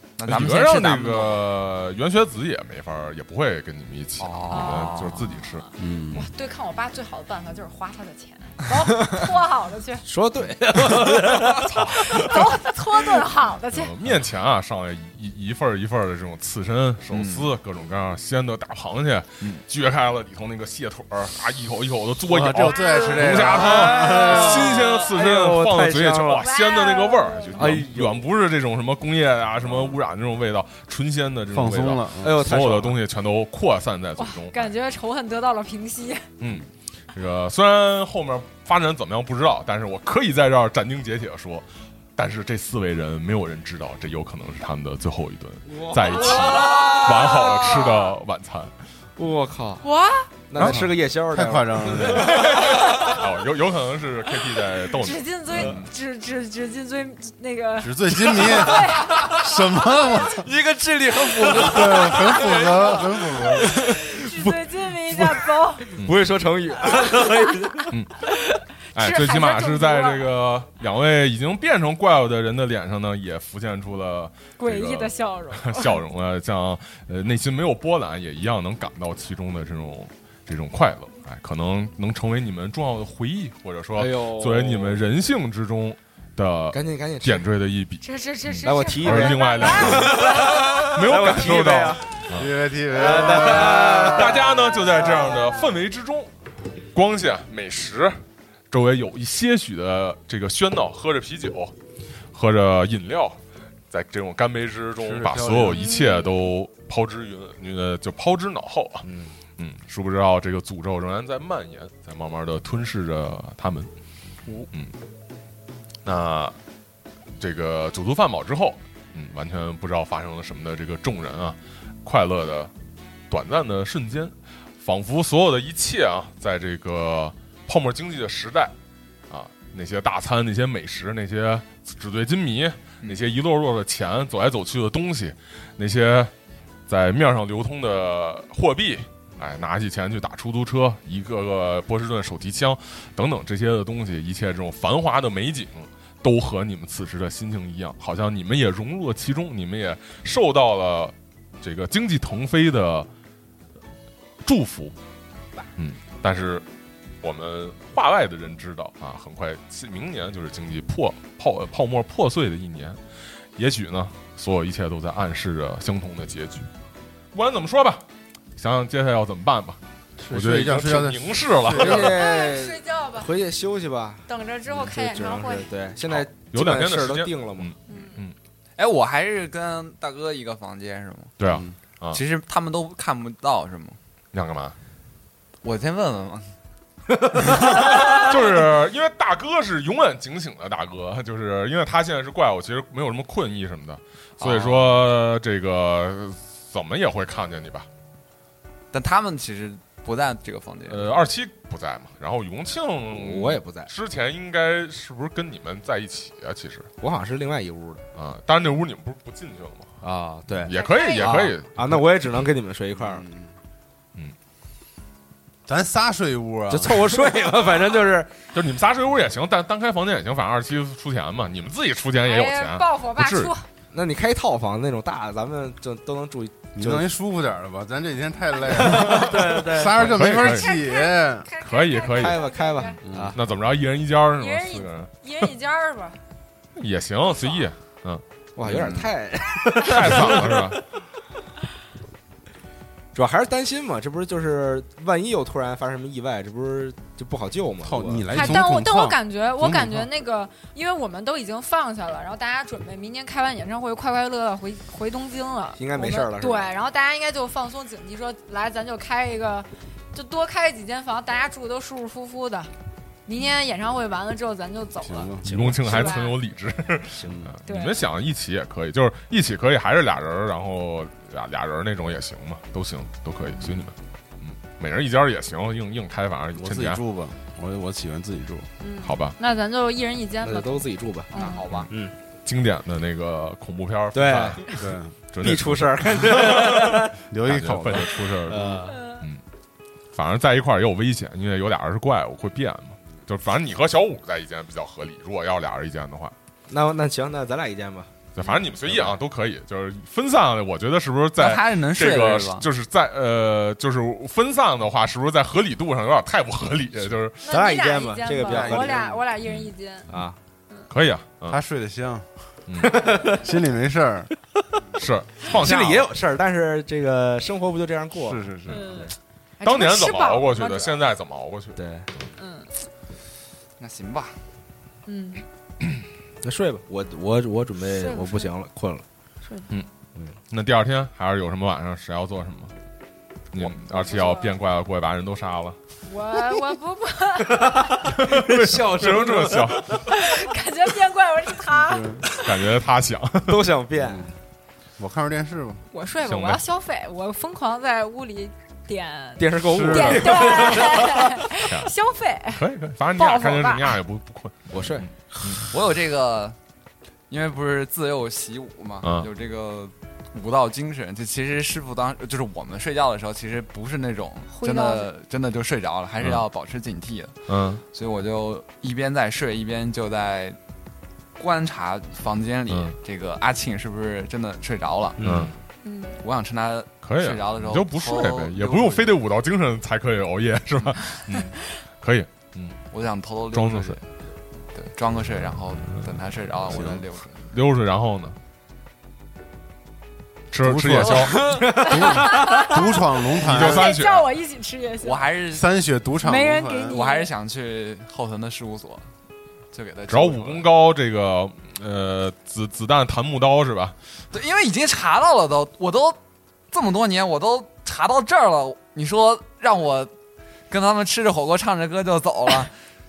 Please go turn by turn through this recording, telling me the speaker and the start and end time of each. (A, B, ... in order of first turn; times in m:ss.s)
0:00.2-0:01.5 A
0:00.3-0:06.2 B
0:04.2-0:05.2 A
0:04.5-0:10.0 C
0:05.8-0:06.2 D
0:10.0-0:11.7 E
0:11.6-0:12.5 B
0:11.9-0:13.9 C
0:13.7-0:34.7 B
0:17.1-0:17.5 A
0:22.2-0:24.8 D
0:22.7-0:23.5 C
0:23.4-0:26.5 E
0:26.4-0:27.8 C
0:27.5-0:28.2 E
0:31.5-0:32.3 D
0:32.2-0:33.0 E
0:34.2-0:36.3 C
0:36.4-0:48.7 B
0:45.7-0:47.4 E
0:46.6-0:48.2 C
0:49.2-0:49.8 E
0:49.8-0:50.3 C
0:50.5-0:52.6 E
0:50.6-0:52.4 D
0:52.4-0:53.2 C
0:52.7-0:55.8 B
0:55.0-0:59.4 C
0:55.5-0:55.8 A
0:57.8-1:00.4 D
1:00.3-1:03.2 A
1:01.1-1:02.1 E
1:01.5-1:03.7 D
1:03.5-1:07.9 E
1:03.7-1:06.0 C
1:06.8-1:07.5 C
1:08.9-1:32.5 B
1:09.0-1:10.3 C
1:14.6-1:16.0 C
1:23.9-1:25.1 E
1:26.7-1:27.5 E
1:28.0-1:30.9 C
1:28.6-1:32.0 E
1:32.3-1:34.4 D
1:32.9-1:34.5 E
1:33.3-1:36.3 B
1:36.9-1:38.2 B
1:38.7-1:41.7 B
1:42.3-1:43.4 B
1:43.9-1:49.0 B
1:45.0-1:45.8 D
1:45.7-1:46.4 C
1:49.0-1:49.4 E
1:49.6-1:53.9 B
1:56.0-1:56.5 B
1:57.4-2:02.7 B
2:03.3-2:08.7 B
2:09.3-2:16.3 B
2:16.9-2:33.1 B
2:34.4-2:35.0 B
2:35.8-2:36.6 B
2:37.2-2:43.0 B
2:43.6-2:46.7 B
2:47.3-2:52.1 B
2:50.2-2:52.1 D
2:51.7-2:57.7 E
2:51.9-2:53.3 C
2:54.3-2:55.7 C
2:56.1-2:58.3 B
2:57.9-2:58.2 C
2:58.8-3:01.3 A
3:01.4-3:02.2 B
3:02.1-3:04.0 A
3:04.3-3:04.8 B
3:05.6-3:06.5 A
3:07.5-3:17.9 B
3:14.4-3:15.0 E
3:18.9-3:21.1 A
3:20.9-3:26.9 B
3:23.1-3:23.9 E
3:27.0-3:28.0 E
3:28.1-3:29.9 B
3:30.0-3:33.2 E
3:30.6-3:32.0 B
3:30.6-3:31.5 C
3:33.1-3:33.5 D
3:35.6-3:37.2 D
3:36.7-3:38.3 E
3:38.5-3:43.5 B
3:42.2-3:43.6 C
3:43.9-3:47.1 E
3:46.8-3:51.5 D
3:48.8-3:50.2 E
3:50.0-3:50.7 B
3:50.2-3:53.0 C
3:51.6-3:52.4 B
3:52.1-3:53.4 E
3:53.0-3:53.3 D
3:53.3-3:55.1 B
3:54.4-3:56.2 C
3:56.8-3:58.2 B
3:58.6-4:00.8 E
3:58.6-3:59.1 A
3:59.8-4:00.8 B
4:03.1-4:08.5 E
4:07.8-4:10.1 D
4:08.3-4:22.7 C
4:15.8-4:16.7 E
4:23.2-4:26.4 C
4:25.0-4:25.6 D
4:25.4-4:26.2 E
4:25.5-4:37.0 B
4:27.2-4:27.5 E
4:27.6-4:28.0 C
4:36.5-4:38.7 D
4:38.8-4:41.7 C
4:39.0-4:39.4 B
4:40.4-4:41.3 E
4:41.3-4:41.9 A
4:42.4-4:49.4 B
4:44.1-4:44.7 E
4:44.7-4:45.1 D
4:45.4-4:47.2 E
4:47.3-4:48.2 D
4:48.4-4:49.1 E
4:48.9-4:49.2 C
4:50.1-4:56.3 B
4:56.7-4:58.1 E
4:58.3-5:07.4 B
5:01.4-5:02.6 A
5:07.4-5:10.1 C
5:07.5-5:09.0 E
5:08.4-5:09.2 D
5:09.4-5:09.7 B
5:10.1-5:10.4 E
5:10.9-5:11.6 B
5:11.5-5:12.3 D
5:12.7-5:13.0 B
5:12.8-5:13.5 E
5:13.2-5:14.3 D
5:14.9-5:16.1 B
5:15.5-5:19.1 E
5:18.2-5:19.0 D
5:18.7-5:21.0 C
5:19.6-5:22.3 B
5:21.7-5:22.1 E
5:22.4-5:22.7 C
5:23.8-5:24.4 A
5:25.0-5:25.4 C
5:26.4-5:29.0 E
5:27.9-5:28.5 C
5:29.4-5:29.7 C
5:30.5-5:32.7 B
5:33.5-5:35.8 B
5:33.8-5:34.5 C
5:36.0-5:38.0 C
5:37.4-5:40.0 E
5:38.1-5:40.0 B
5:40.0-5:42.3 C
5:41.9-5:42.2 D
5:42.3-5:43.6 B
5:43.4-5:44.3 E
5:44.0-5:44.3 D
5:45.0-5:45.8 D
5:45.9-5:52.6 C
5:46.2-5:46.6 B
5:49.4-5:51.4 E
5:49.9-5:50.4 B
5:51.6-5:51.9 B
5:52.5-5:55.6 B
5:53.1-5:54.0 C
5:54.7-5:55.7 E
5:55.6-5:56.6 A
5:57.3-6:07.3 A
5:59.0-5:59.3 B
6:04.5-6:05.1 C
6:07.5-6:07.8 B
6:07.9-6:10.6 A
6:11.4-6:15.3 A
6:15.2-6:15.5 E
6:15.2-6:15.5 B
6:15.8-6:16.2 C
6:16.2-6:19.1 A
6:17.0-6:22.8 B
6:22.9-6:24.0 A
6:23.5-6:24.0 B
6:24.7-6:27.5 A
6:26.7-6:27.0 D
6:27.5-6:28.4 B
6:30.5-6:31.5 B
6:30.6-6:33.9 D
6:31.4-6:32.7 E
6:31.6-6:35.2 C
6:33.4-6:34.3 B
6:35.0-6:35.7 A
6:35.5-6:37.0 D
6:36.2-6:37.3 C
6:36.9-6:39.0 A
6:39.7-6:40.7 A
6:40.1-6:43.9 B
6:44.3-6:46.2 A
6:46.7-6:50.1 A
6:50.7-6:52.7 A